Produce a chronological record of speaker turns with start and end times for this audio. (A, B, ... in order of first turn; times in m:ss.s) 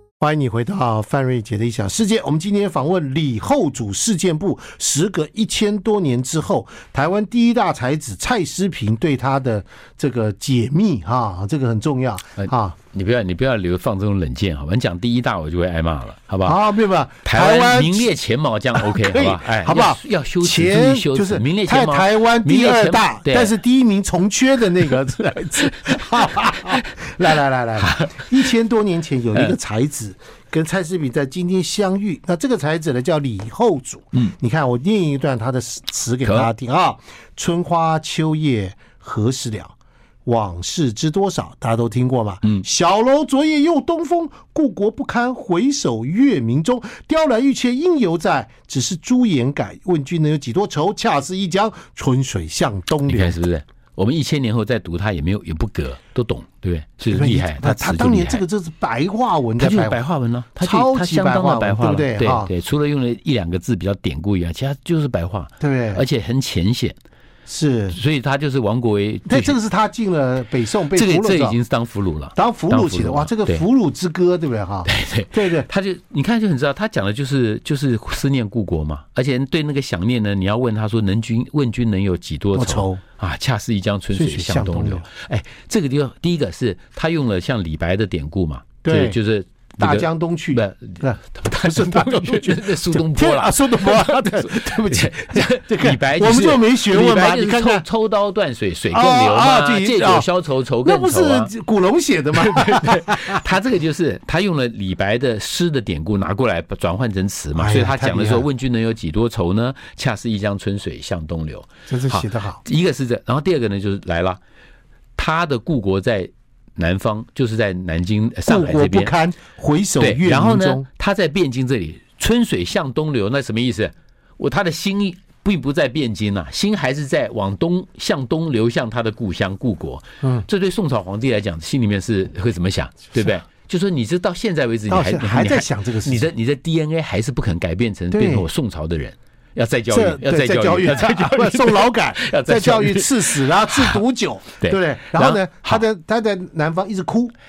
0:00.2-0:12.8 A
0:12.4-0:16.6 B
0:16.4-0:18.1 A
0:17.2-0:23.5 B
0:18.7-0:53.4 A
0:26.1-0:26.8 B
0:27.8-0:28.4 B
0:36.2-0:36.5 B
0:53.0-0:58.4 B
0:57.1-1:00.0 A
0:59.6-1:07.0 B
1:00.6-1:02.5 A
1:05.6-1:06.0 A
1:07.5-1:08.0 A
1:07.9-1:09.6 B
1:09.3-1:11.6 A
1:10.9-1:13.6 B
1:12.3-1:15.7 A
1:14.8-1:41.5 B
1:22.5-1:23.0 A
1:24.1-1:25.0 A
1:28.8-1:29.2 A
1:29.8-1:37.8 A
1:38.9-1:40.3 A
1:40.8-1:43.4 A
1:42.3-1:54.4 B
1:47.5-1:48.4 A
1:51.9-1:52.6 A
1:55.2-1:59.1 B
1:58.4-2:00.8 A
2:00.0-2:24.0 B
2:14.9-2:16.2 A
2:18.1-2:18.5 A
2:19.9-2:27.3 A
2:24.6-2:25.8 B